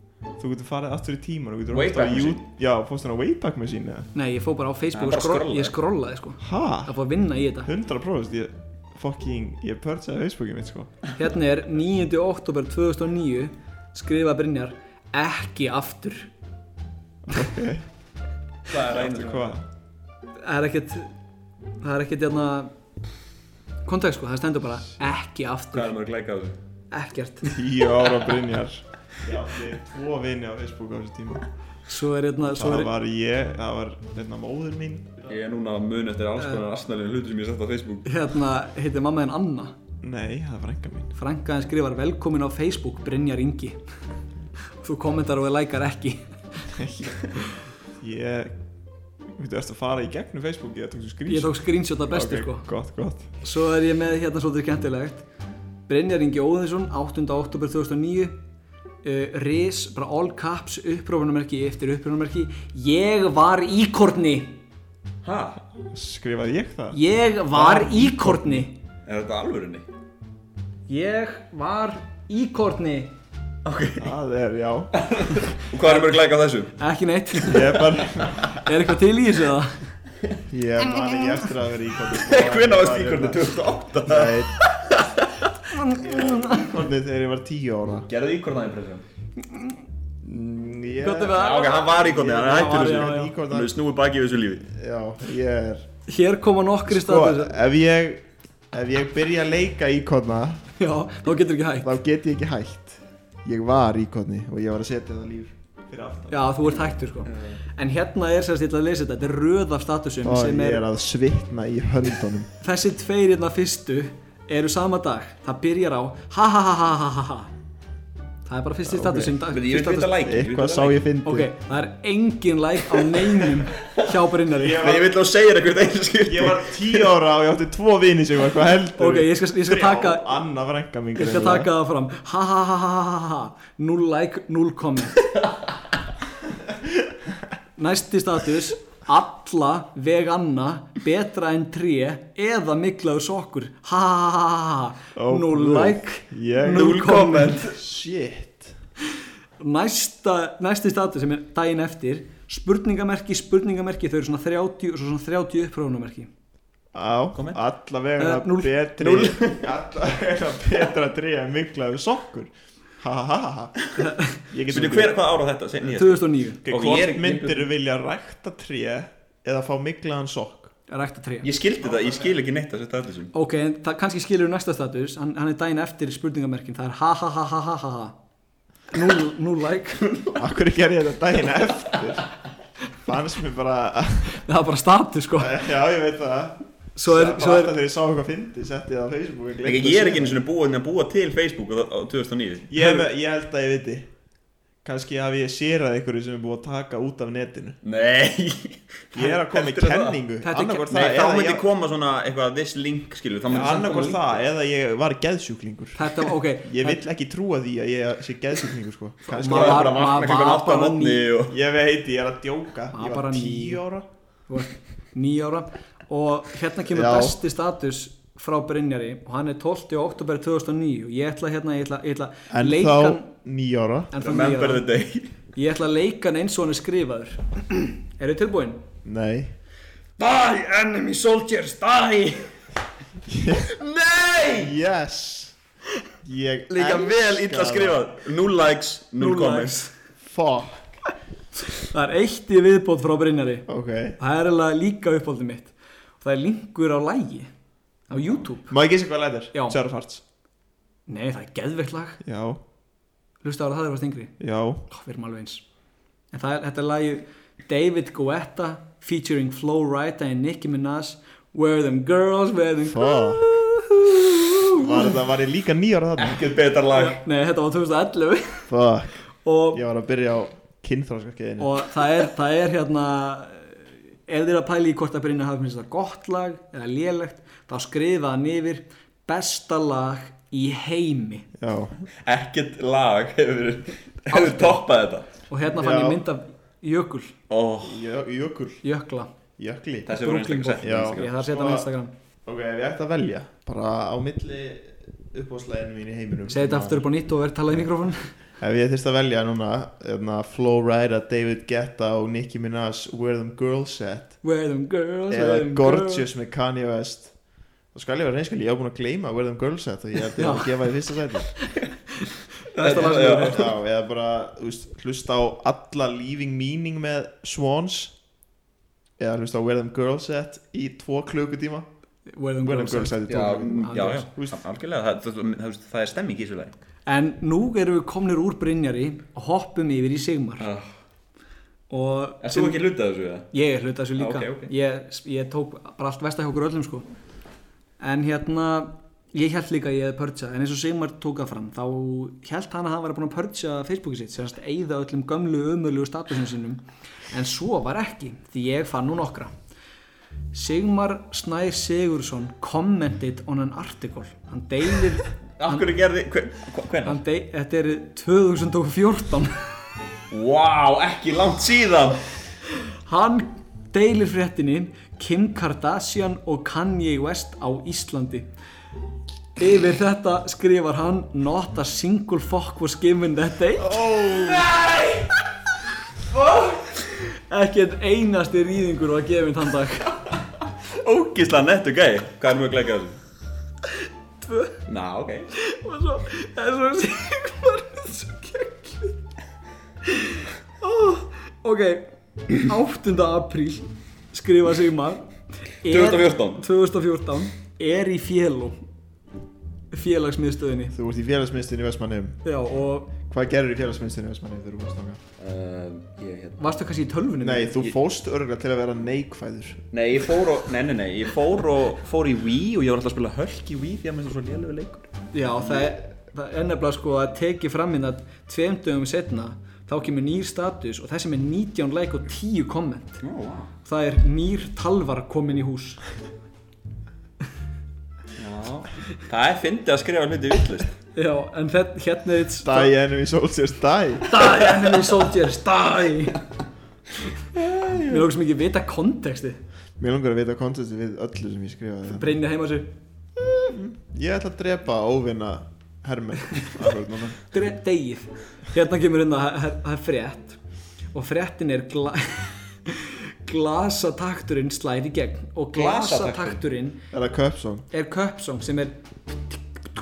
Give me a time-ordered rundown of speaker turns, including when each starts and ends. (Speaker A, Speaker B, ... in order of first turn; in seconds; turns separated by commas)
Speaker A: 0.3-4.1, Speaker B: 1.7-2.4, Speaker C: 4.1-7.7, Speaker B: 4.9-5.7, Speaker A: 6.4-6.9, Speaker A: 7.6-10.9, Speaker C: 11.1-16.3, Speaker A: 17.2-17.9, Speaker B: 18.7-19.6, Speaker A: 18.9-19.6, Speaker C: 20.4-21.1, Speaker C: 21.8-22.7, Speaker C: 23.8-25.9, Speaker B: 25.7-26.6, Speaker C: 26.9-27.8, Speaker A: 27.4-31.4, Speaker C: 31.9-32.9, Speaker A: 32.4-35.3, Speaker B: 35.3-38.1, Speaker C: 38.0-39.7, Speaker A: 40.0-41.1, Speaker C: 41.1-43.8, Speaker C: 44.8-46.7, Speaker A: 46.7-47.2, Speaker A: 48.0-48.5, Speaker A: 49.2-53.3, Speaker C: 51.3-52.7, Speaker C: 53.4-55.2, Speaker C: 55.9-58.4, Speaker C: 59.0-64.6, Speaker B: 65.2-65.6, Speaker A: 65.9-67.0, Speaker C: 66.9-68.7, Speaker A: 67.5-68.7, Speaker B: 69.0-69.8, Speaker C: 70.9-73.1, Speaker B: 73.6-74.1, Speaker A: 74.0-75.0, Speaker B: 75.0-76.7, Speaker C: 76.8-77.9, Speaker A: 77.5-78.6, Speaker B: 78.3-78.6, Speaker C: 78.5-79.8, Speaker A: 80.5-83.5, Speaker B: 82.1-85.5, Speaker A: 84.0-84.5, Speaker C: 85.7-86.7, Speaker A: 85.9-88.1, Speaker B: 88.1-89.0, Speaker A: 90.2-93.7, Speaker C: 91.0-93.3, Speaker B: 91.3-94.7, Speaker A: 94.7-95.9, Speaker C: 96.1-97.5, Speaker A: 96.9-100.6, Speaker C: 100.8-101.9, Speaker A: 101.8-106.5, Speaker C: 106.3-110.8, Speaker B: 107.2-107.6, Speaker A: 110.2-112.5, Speaker C: 112.6-117.5, Speaker C: 118.5-120.1, Speaker A: 118.8-119.4, Speaker B: 119.5-121.0, Speaker A: 120.2-121.5, Speaker C: 121.2-124.9, Speaker B: 123.1-124.1, Speaker A: 124.5-125.2, Speaker B: 124.7-127.1, Speaker A: 126.2-131.7, Speaker C: 129.0-130.3, Speaker C: 131.1-135.2, Speaker C: 137.8-147.6, Speaker A: 145.1-148.8, Speaker B: 146.7-147.7, Speaker C: 149.6-156.3, Speaker A: 156.9-165.2, Speaker B: 157.3-157.6, Speaker C: 158.2-158.8, Speaker B: 159.0-159.7, Speaker C: 164.0-164.4, Speaker B: 164.7-167.7, Speaker C: 165.8-166.6, Speaker A: 166.6-170.7, Speaker C: 170.9-171.5, Speaker B: 171.4-173.3, Speaker C: 173.3-178.2, Speaker C: 178.9-180.1, Speaker A: 180.4-182.3, Speaker A: 183.0-184.4, Speaker C: 184.3-185.6, Speaker A: 185.4-190.4, Speaker C: 186.9-187.7, Speaker B: 189.6-192.7, Speaker A: 192.7-194.1, Speaker A: 194.8-197.8, Speaker B: 197.8-200.2, Speaker A: 199.1-201.7, Speaker C: 200.4-200.9, Speaker B: 200.9-204.4, Speaker A: 203.5-210.1, Speaker C: 205.9-207.0, Speaker C: 209.2-211.3, Speaker B: 209.4-211.6, Speaker A: 211.5-214.1, Speaker C: 212.9-213.8, Speaker C: 214.5-223.3, Speaker A: 216.9-217.4, Speaker A: 222.5-224.1, Speaker C: 224.1-224.8, Speaker B: 224.2-225.3, Speaker C: 225.5-228.8, Speaker A: 229.0-229.5, Speaker B: 230.2-232.3, Speaker C: 231.6-232.1, Speaker A: 233.3-233.7, Speaker B: 233.6-234.7, Speaker A: 234.5-235.6, Speaker A: 236.2-238.1, Speaker B: 236.7-239.9, Speaker C: 239.2-239.9, Speaker A: 240.2-241.0, Speaker C: 241.7-247.5, Speaker A: 243.7-244.2, Speaker C: 248.1-248.7, Speaker A: 248.7-250.2, Speaker C: 251.1-252.2, Speaker A: 252.2-252.6, Speaker C: 253.4-254.3, Speaker A: 254.4-254.8, Speaker C: 254.9-255.6, Speaker C: 256.3-265.1, Speaker A: 262.8-263.5, Speaker A: 264.6-266.4, Speaker B: 266.2-267.2, Speaker C: 266.9-268.7, Speaker A: 268.7-269.2, Speaker C: 269.4-269.8, Speaker A: 269.7-272.0, Speaker C: 271.6-281.5, Speaker A: 281.6-282.0, Speaker B: 282.2-285.3, Speaker C: 284.3-284.8, Speaker C: 285.5-287.4, Speaker A: 285.7-286.2, Speaker B: 287.5-288.1, Speaker A: 287.8-288.8, Speaker C: 288.8-289.3, Speaker A: 289.6-290.1, Speaker B: 290.1-291.3, Speaker C: 290.1-292.1, Speaker A: 290.8-291.9, Speaker A: 292.4-297.1, Speaker C: 296.5-298.2, Speaker A: 298.6-304.4, Speaker C: 304.4-306.2, Speaker A: 305.3-307.4, Speaker A: 307.9-311.6, Speaker C: 310.4-310.8, Speaker C: 311.6-313.7, Speaker B: 312.8-313.7, Speaker A: 313.0-318.1, Speaker A: 319.2-321.9, Speaker C: 322.3-324.3, Speaker A: 322.6-324.6, Speaker B: 323.2-326.7, Speaker C: 327.1-330.7, Speaker B: 330.6-330.9, Speaker C: 331.9-332.8, Speaker B: 332.4-333.5, Speaker C: 333.5-337.1, Speaker B: 334.2-334.7, Speaker C: 338.0-349.5, Speaker C: 350.5-355.9, Speaker B: 355.6-357.2, Speaker C: 357.0-359.6, Speaker B: 360.3-362.2, Speaker C: 363.1-368.5, Speaker C: 369.6-374.1, Speaker A: 373.8-374.7, Speaker B: 374.3-375.3, Speaker C: 376.5-380.3, Speaker B: 380.8-383.2, Speaker C: 384.4-384.8, Speaker B: 384.9-385.5, Speaker C: 385.5-389.2, Speaker C: 390.0-395.3, Speaker C: 395.8-398.8, Speaker B: 395.9-396.6, Speaker C: 399.9-400.9, Speaker A: 400.9-402.4, Speaker C: 402.4-403.1, Speaker A: 403.3-405.2, Speaker B: 405.4-406.6, Speaker C: 406.6-407.8, Speaker A: 407.4-409.8, Speaker B: 409.9-415.1, Speaker C: 415.3-423.2, Speaker B: 423.2-423.7, Speaker C: 423.8-426.0, Speaker B: 428.4-430.9, Speaker C: 431.1-432.9, Speaker A: 432.6-434.3, Speaker C: 434.3-436.4, Speaker B: 437.6-438.2, Speaker C: 437.9-439.6, Speaker A: 440.0-442.3, Speaker C: 442.1-442.9, Speaker A: 443.4-447.4, Speaker C: 447.5-450.6, Speaker C: 451.1-457.0, Speaker B: 455.7-456.6, Speaker A: 457.1-457.9, Speaker C: 457.9-459.6